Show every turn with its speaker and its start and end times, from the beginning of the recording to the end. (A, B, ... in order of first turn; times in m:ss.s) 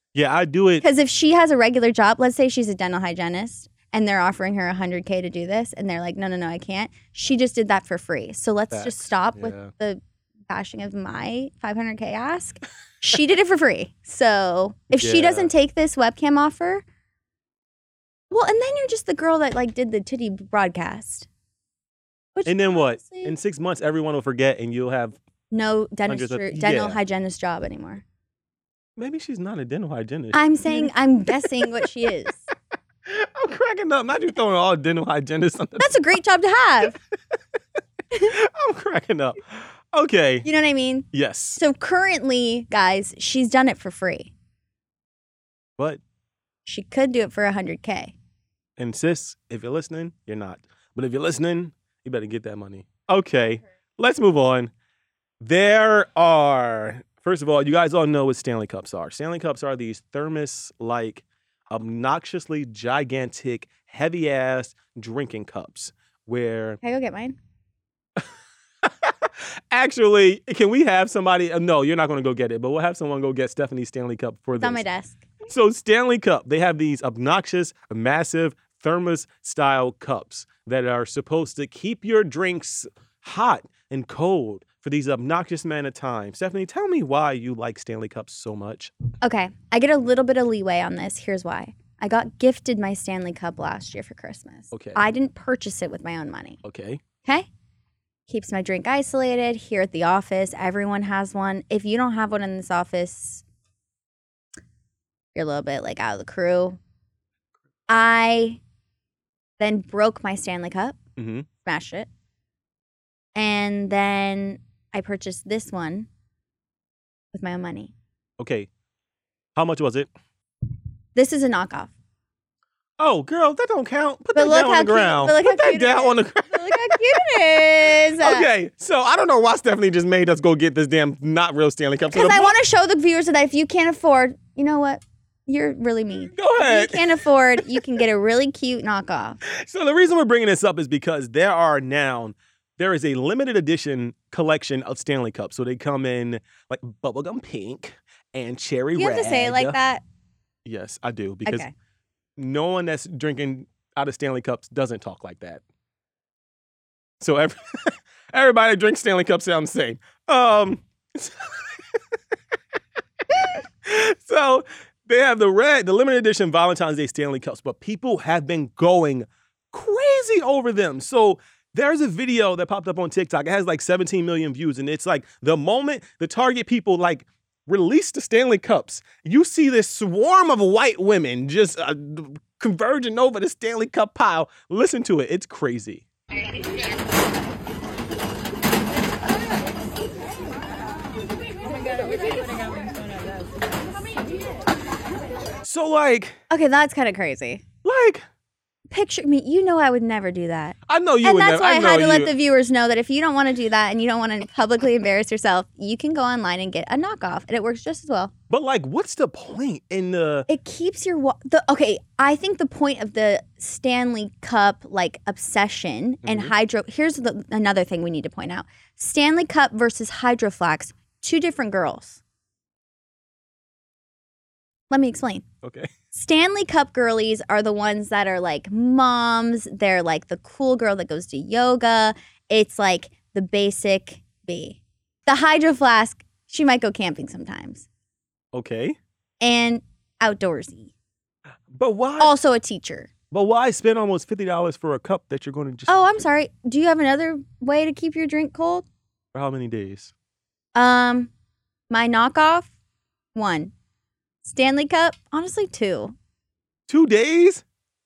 0:00.1-0:00.8 A
0:00.8-0:16.8 B
0:08.7-0:09.7 A
0:14.9-0:15.5 A
0:18.3-0:21.3 B
0:22.4-0:23.3 B
0:22.5-0:25.2 A
0:25.5-0:28.0 B
0:26.1-0:27.0 A
0:29.0-0:30.9 A
0:30.3-0:32.4 B
0:33.1-0:36.0 A
0:35.8-0:37.0 B
0:38.2-0:40.5 A
0:40.4-0:44.3 B
0:41.1-0:41.6 A
0:46.7-0:48.2 B
0:48.8-0:54.7 A
0:55.4-1:06.8 A
1:06.8-1:07.4 B
1:08.8-1:14.8 A
1:14.6-1:15.2 B
1:15.5-1:28.9 A
1:29.2-1:36.6 B
1:34.7-1:35.0 A
1:36.6-1:37.0 A
1:38.3-1:43.4 B
1:45.4-1:46.8 B
1:47.9-1:48.6 B
1:49.6-1:51.0 B
1:51.2-1:51.5 A
1:51.6-1:52.1 B
1:53.4-1:56.1 B
1:57.3-1:57.9 B
1:58.4-1:58.7 A
1:59.6-2:00.1 A
2:01.2-2:01.9 B
2:03.0-2:07.0 A
2:04.4-2:08.5 B
2:08.2-2:12.6 A
2:12.1-2:19.4 B
2:16.2-2:17.8 A
2:19.4-2:29.8 A
2:29.0-2:30.0 B
2:30.6-2:31.7 A
2:31.5-2:31.7 B
2:32.4-2:35.6 A
2:37.2-2:41.6 A
2:43.8-3:06.0 A
3:15.6-3:16.4 A
3:16.5-3:17.6 B
3:17.8-3:18.2 A
3:18.9-3:28.3 B
3:20.9-3:22.3 A
3:28.5-3:30.5 A
3:30.5-3:42.2 B
3:36.2-3:36.5 A
3:44.9-3:45.5 B
3:45.6-3:45.9 A
3:46.1-3:57.9 B
3:58.5-3:59.0 A
3:59.4-4:00.9 B
4:01.7-4:02.3 A
4:02.2-4:03.1 B
4:03.3-4:05.9 A
4:05.9-4:08.9 B
4:09.3-4:10.1 A
4:10.8-4:11.3 B
4:11.9-4:12.7 B
4:13.4-4:13.7 B
4:14.4-4:16.2 B
4:16.9-4:17.6 A